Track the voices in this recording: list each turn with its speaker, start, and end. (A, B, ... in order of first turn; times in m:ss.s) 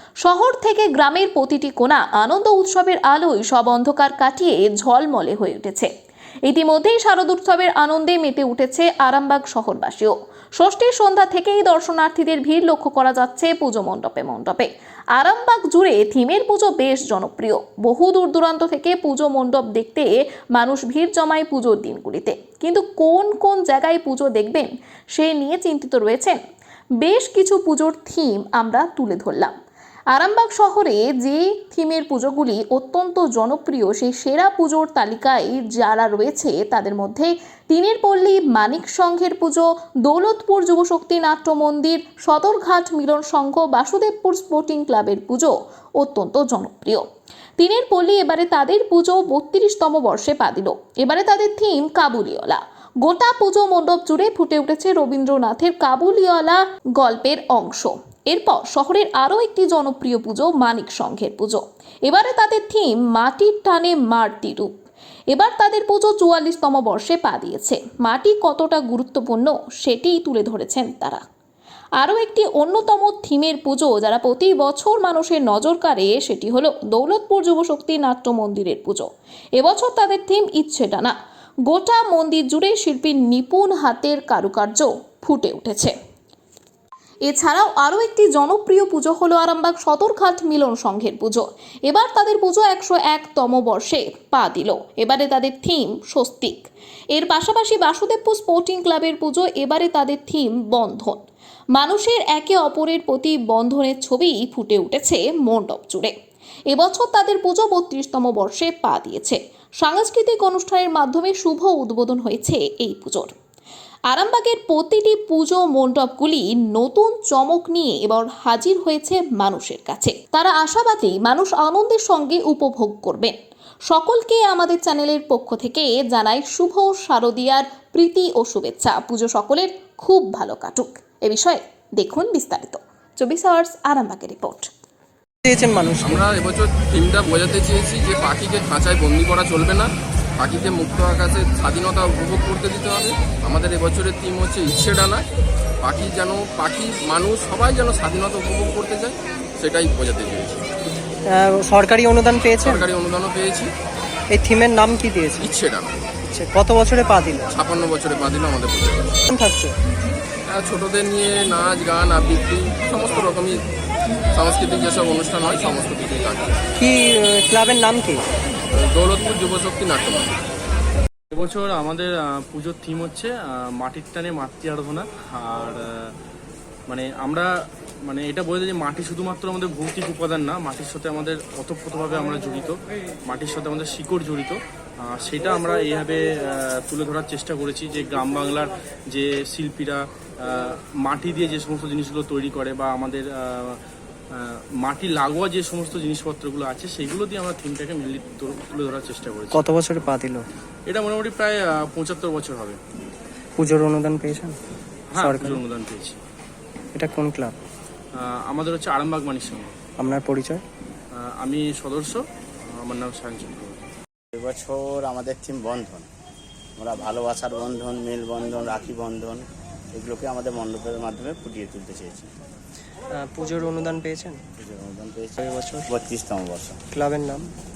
0:00.2-0:05.9 A
0:06.5-0:26.4 A
0:27.0-0:29.5 A
0:30.1-0:47.0 A
0:47.6-1:04.7 A
1:05.3-1:11.2 A
1:12.0-1:21.2 A
1:21.7-1:25.9 A
1:27.3-1:41.2 A
1:41.8-1:46.1 A
1:46.7-1:53.3 A
1:54.1-2:03.4 A
2:03.9-2:14.7 A
2:15.4-2:16.2 B
2:16.0-2:25.2 C
2:25.8-2:30.6 C
2:31.3-2:32.9 B
2:32.6-2:33.7 C
2:34.3-2:35.5 B
2:35.4-2:36.1 C
2:36.2-2:37.5 B
2:37.5-2:39.2 C
2:39.3-2:39.8 B
2:40.5-2:43.6 C
2:44.3-2:46.6 C
2:46.8-2:48.2 B
2:48.7-2:50.4 C
2:51.3-2:56.1 D
2:56.9-2:57.5 D
2:58.0-3:13.8 D
3:14.3-3:19.6 D
3:19.5-3:20.4 B
3:20.9-3:22.8 D
3:23.6-3:24.6 B
3:25.1-3:26.2 D
3:25.2-3:25.6 B
3:26.9-3:27.6 B
3:28.2-3:29.8 D
3:30.0-3:30.6 B
3:31.2-3:33.8 D
3:34.3-3:36.1 E
3:36.8-3:42.3 E
3:43.1-3:44.4 B
3:44.6-3:46.8 E
3:45.4-3:45.9 B
3:46.9-3:47.5 B